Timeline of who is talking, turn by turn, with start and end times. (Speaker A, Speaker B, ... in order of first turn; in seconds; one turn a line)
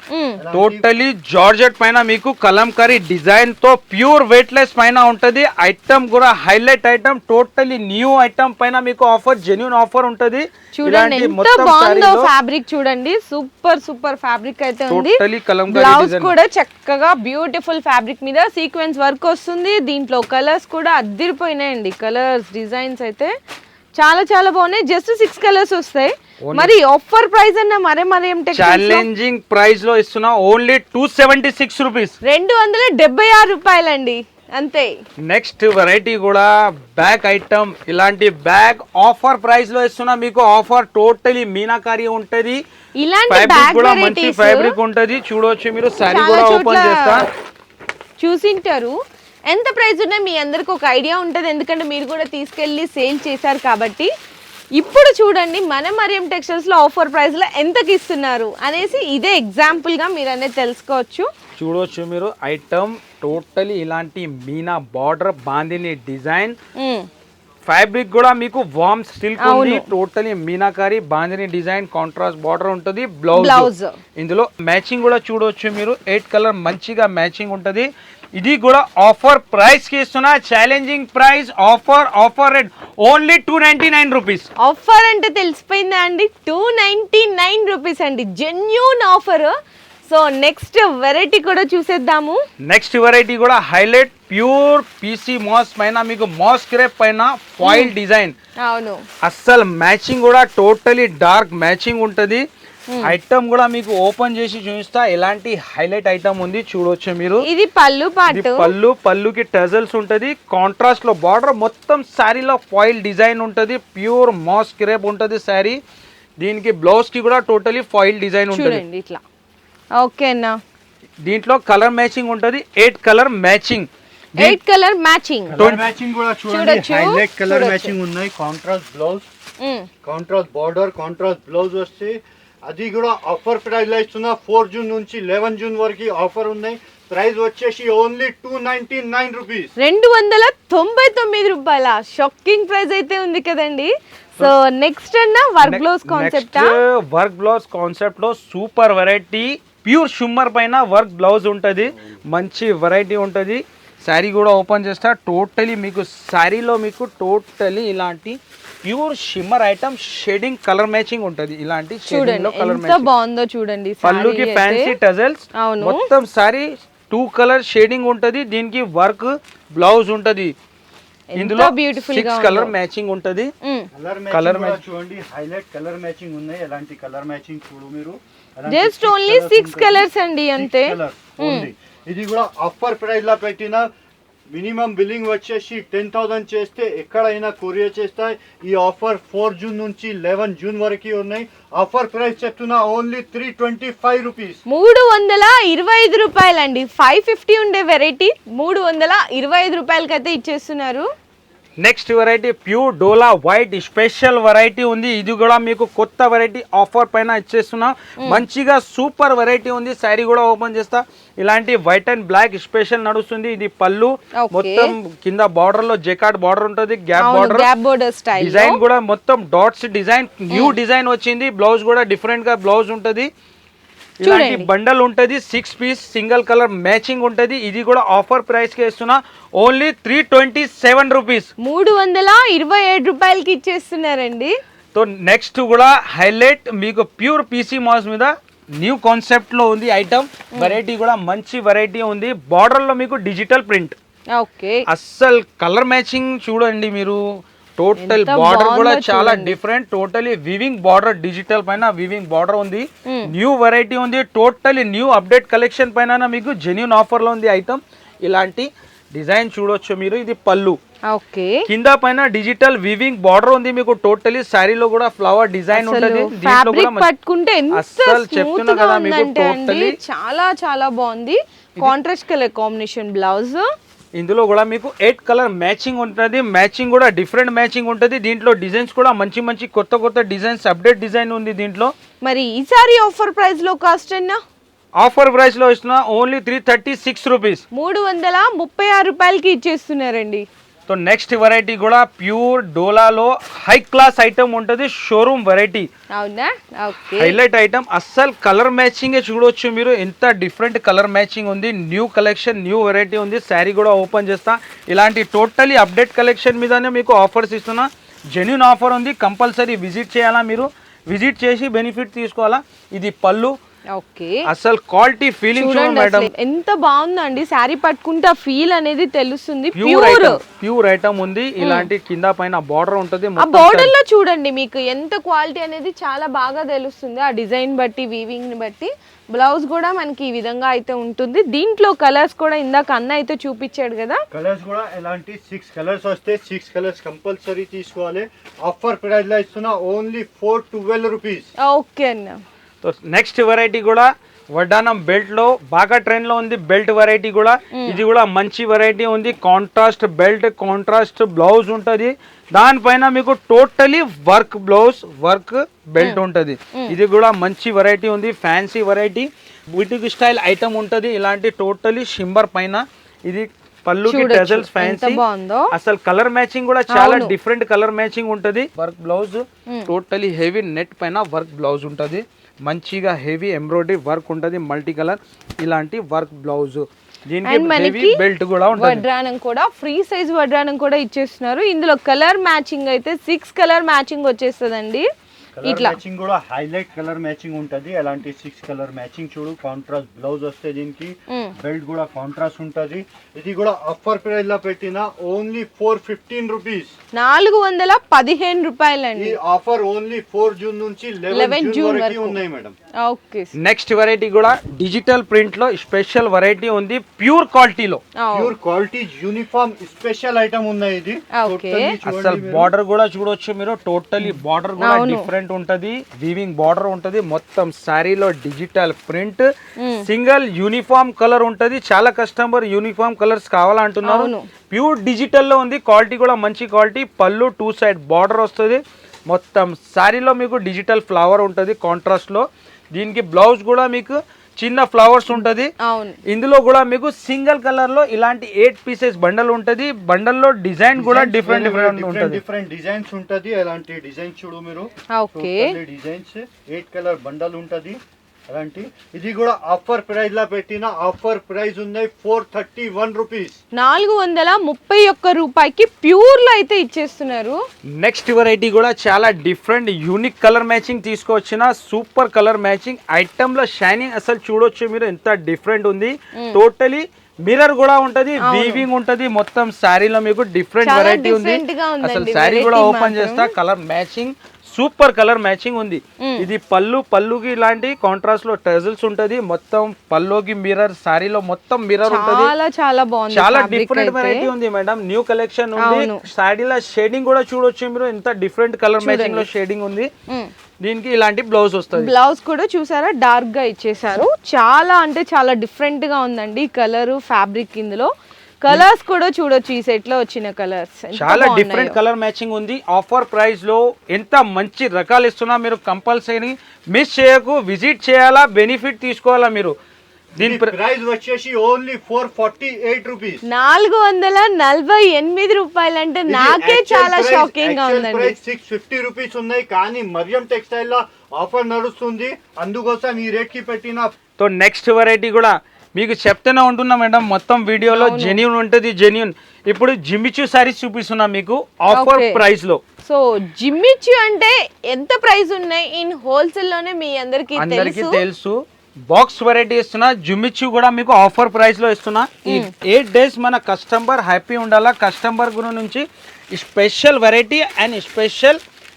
Speaker A: 0.1-0.4
Speaker B: 0.4-0.8
Speaker C: 0.5-12.3
Speaker A: 10.7-23.3
Speaker C: 14.9-16.3
Speaker A: 24.0-29.1
Speaker C: 26.4-26.7
Speaker C: 28.5-32.2
Speaker A: 32.2-34.9
Speaker C: 35.2-42.6
Speaker A: 43.0-44.7
Speaker C: 43.3-47.3
Speaker A: 46.0-47.2
Speaker A: 48.2-49.0
Speaker A: 49.5-54.1
Speaker A: 54.8-61.3
Speaker C: 61.6-66.6
Speaker A: 66.8-67.1
Speaker C: 67.7-84.5
Speaker A: 69.4-69.9
Speaker A: 73.3-74.0
Speaker A: 84.6-89.5
Speaker A: 90.1-92.4
Speaker C: 92.6-98.3
Speaker A: 97.6-97.9
Speaker A: 98.6-99.0
Speaker C: 99.2-102.5
Speaker A: 102.9-103.2
Speaker C: 103.0-107.5
Speaker A: 107.4-108.7
Speaker C: 108.3-115.8
Speaker C: 116.4-118.8
Speaker A: 118.5-119.2
Speaker A: 120.0-120.6
Speaker C: 121.2-124.6
Speaker A: 124.4-125.7
Speaker B: 125.5-129.3
Speaker A: 126.5-127.9
Speaker A: 129.6-129.9
Speaker B: 130.0-139.7
Speaker A: 139.8-146.8
Speaker C: 145.6-163.1
Speaker A: 162.1-164.9
Speaker C: 164.0-170.5
Speaker A: 165.6-166.1
Speaker A: 171.3-172.7
Speaker C: 171.4-173.5
Speaker A: 173.6-173.9
Speaker B: 173.9-183.9
Speaker C: 174.3-174.8
Speaker A: 178.7-181.7
Speaker B: 184.5-194.6
Speaker A: 194.7-201.1
Speaker C: 201.8-217.7
Speaker A: 214.4-214.9
Speaker A: 217.2-218.8
Speaker C: 218.4-223.3
Speaker C: 224.2-231.5
Speaker A: 224.2-224.7
Speaker A: 231.6-234.6
Speaker C: 234.9-243.9
Speaker A: 244.3-244.8
Speaker C: 244.9-247.2
Speaker C: 247.8-260.8
Speaker A: 248.0-249.6
Speaker A: 261.1-261.6
Speaker C: 261.7-267.1
Speaker A: 265.7-273.6
Speaker C: 267.7-269.9
Speaker C: 274.2-281.9
Speaker A: 282.2-284.4
Speaker C: 285.0-287.6
Speaker A: 287.7-290.5
Speaker C: 290.9-295.9
Speaker A: 296.1-297.4
Speaker C: 297.0-313.5
Speaker A: 313.9-314.4
Speaker C: 314.5-316.3
Speaker A: 315.6-320.4
Speaker C: 319.8-323.9
Speaker A: 321.6-321.9
Speaker A: 323.4-334.2
Speaker B: 334.3-341.5
Speaker A: 341.6-342.4
Speaker C: 342.8-365.2
Speaker A: 347.7-348.0
Speaker A: 364.1-365.7
Speaker C: 365.7-379.1
Speaker A: 366.9-367.3
Speaker A: 377.4-378.2
Speaker A: 378.8-385.1
Speaker B: 385.6-396.9
Speaker A: 385.6-386.0
Speaker A: 397.1-399.4
Speaker B: 399.2-402.8
Speaker A: 401.3-402.4
Speaker A: 403.0-403.5
Speaker C: 403.6-408.0
Speaker A: 408.2-408.5
Speaker B: 408.3-412.7
Speaker A: 411.4-411.9
Speaker C: 412.0-419.5
Speaker A: 414.8-415.3
Speaker A: 419.8-420.0
Speaker C: 420.0-435.7
Speaker A: 424.0-424.5
Speaker A: 435.8-436.2
Speaker C: 436.3-442.4
Speaker B: 441.0-453.6
Speaker A: 445.1-445.8
Speaker A: 453.8-457.6
Speaker C: 458.0-482.5
Speaker A: 466.4-466.6
Speaker A: 468.4-468.9
Speaker A: 470.9-473.5
Speaker A: 476.2-476.5
Speaker A: 482.1-484.5
Speaker C: 483.3-490.1
Speaker A: 485.8-486.2
Speaker A: 489.0-489.5
Speaker C: 490.8-492.1
Speaker A: 491.9-498.1
Speaker A: 498.6-502.0
Speaker C: 501.1-509.7
Speaker C: 510.4-510.7
Speaker B: 510.4-513.4
Speaker A: 513.5-518.4
Speaker B: 516.3-524.1
Speaker C: 524.4-532.8
Speaker A: 527.9-528.4
Speaker A: 531.9-532.4
Speaker A: 533.0-538.2
Speaker C: 537.5-538.6
Speaker C: 539.1-548.6